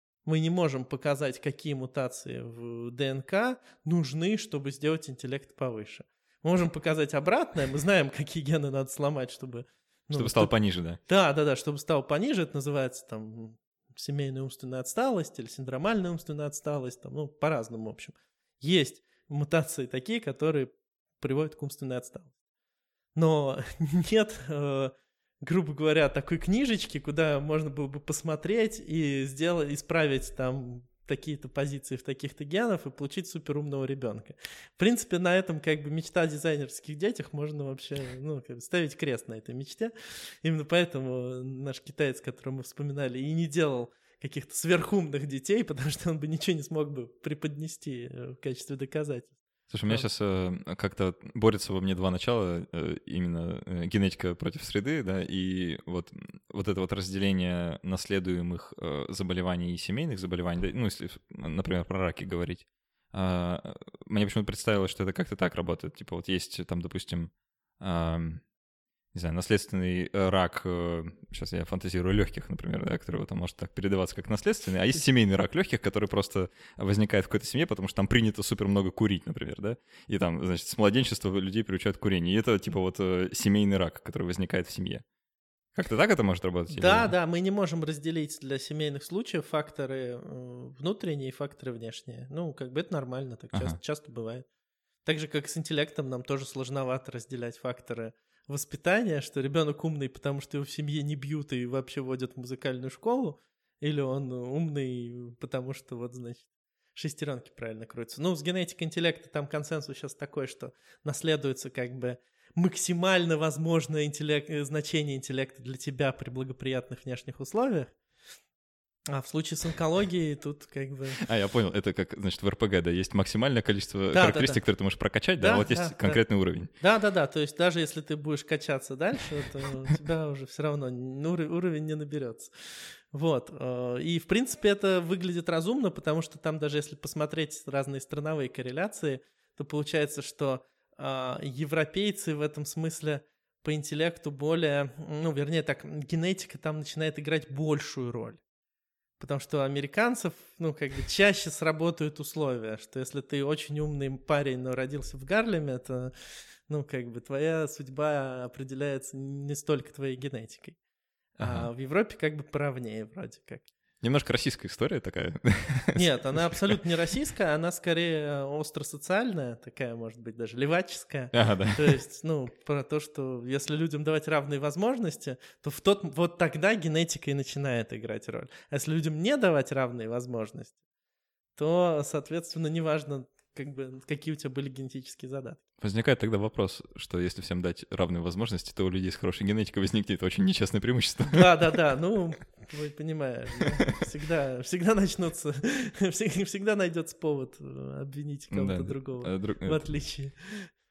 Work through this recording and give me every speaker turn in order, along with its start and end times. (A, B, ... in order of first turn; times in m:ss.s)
0:00.2-0:10.5 A
0:10.1-0:11.0 B
0:11.0-0:22.3 A
0:23.1-0:49.3 A
0:49.7-1:08.4 B
1:09.1-1:25.0 B
1:25.7-1:27.1 B
1:26.7-1:34.4 A
1:33.5-1:33.8 B
1:35.0-1:58.0 A
1:59.1-2:01.2 A
2:01.2-2:06.7 B
2:04.1-2:04.6 A
2:05.4-2:12.5 A
2:13.1-2:28.4 A
2:29.2-2:36.1 A
2:36.7-2:40.8 A
2:41.4-2:43.7 A
2:41.4-2:41.7 B
2:44.0-2:46.8 B
2:45.9-3:00.8 A
2:51.3-2:52.0 B
3:01.6-3:05.6 A
3:05.8-3:11.5 B
3:11.2-3:20.7 A
3:18.5-3:19.8 B